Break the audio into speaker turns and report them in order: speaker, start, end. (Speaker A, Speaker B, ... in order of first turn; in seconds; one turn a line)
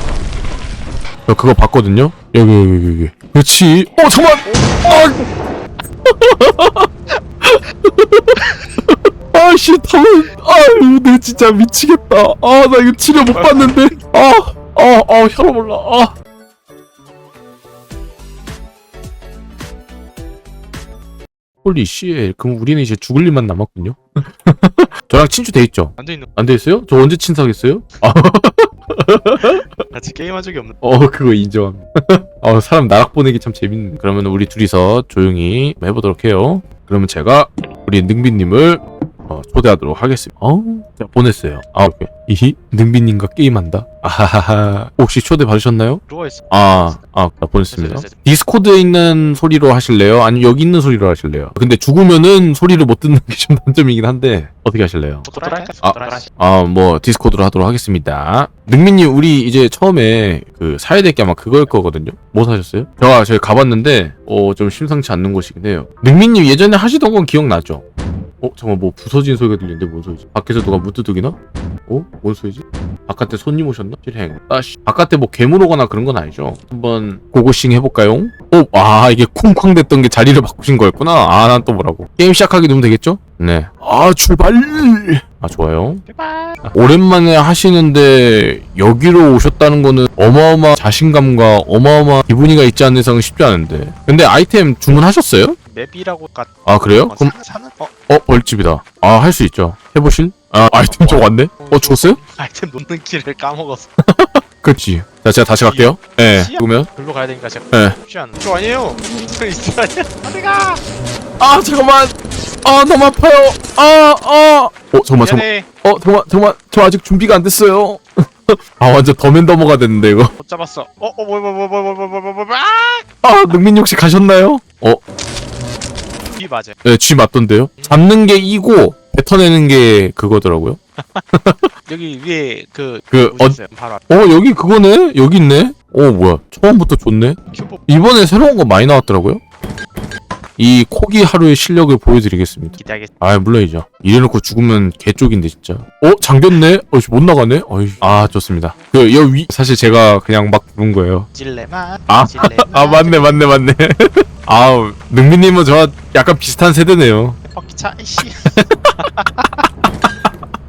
Speaker A: 1.3-5.3
Speaker B: 4.4-4.9
Speaker A: 6.0-6.9
Speaker A: 7.4-16.1
Speaker B: 13.3-13.8
Speaker A: 21.6-29.6
Speaker B: 26.0-26.3
Speaker B: 29.4-30.8
Speaker A: 30.8-55.3
Speaker B: 46.1-47.0
Speaker B: 47.7-48.2
Speaker B: 55.2-56.3
Speaker A: 55.8-67.8
Speaker A: 68.4-71.3
Speaker A: 71.9-86.0
Speaker B: 86.0-86.8
Speaker A: 86.7-95.6
Speaker B: 95.7-96.5
Speaker A: 96.7-97.3
Speaker B: 97.0-97.9
Speaker A: 98.1-102.2
Speaker B: 100.9-103.9
Speaker A: 104.1-106.9
Speaker B: 105.6-110.8
Speaker A: 111.4-120.3
Speaker B: 115.2-115.7
Speaker B: 120.4-123.1
Speaker A: 123.2-125.0
Speaker B: 126.3-126.8
Speaker A: 126.8-130.8
Speaker B: 127.8-128.0
Speaker B: 131.0-131.2
Speaker A: 131.3-131.7
Speaker B: 131.8-134.1
Speaker A: 133.1-133.6
Speaker A: 134.1-139.4
Speaker B: 137.5-137.9
Speaker A: 140.6-151.3
Speaker B: 142.8-143.1
Speaker B: 151.3-153.5
Speaker A: 152.1-157.4
Speaker B: 157.5-159.6
Speaker A: 158.5-159.0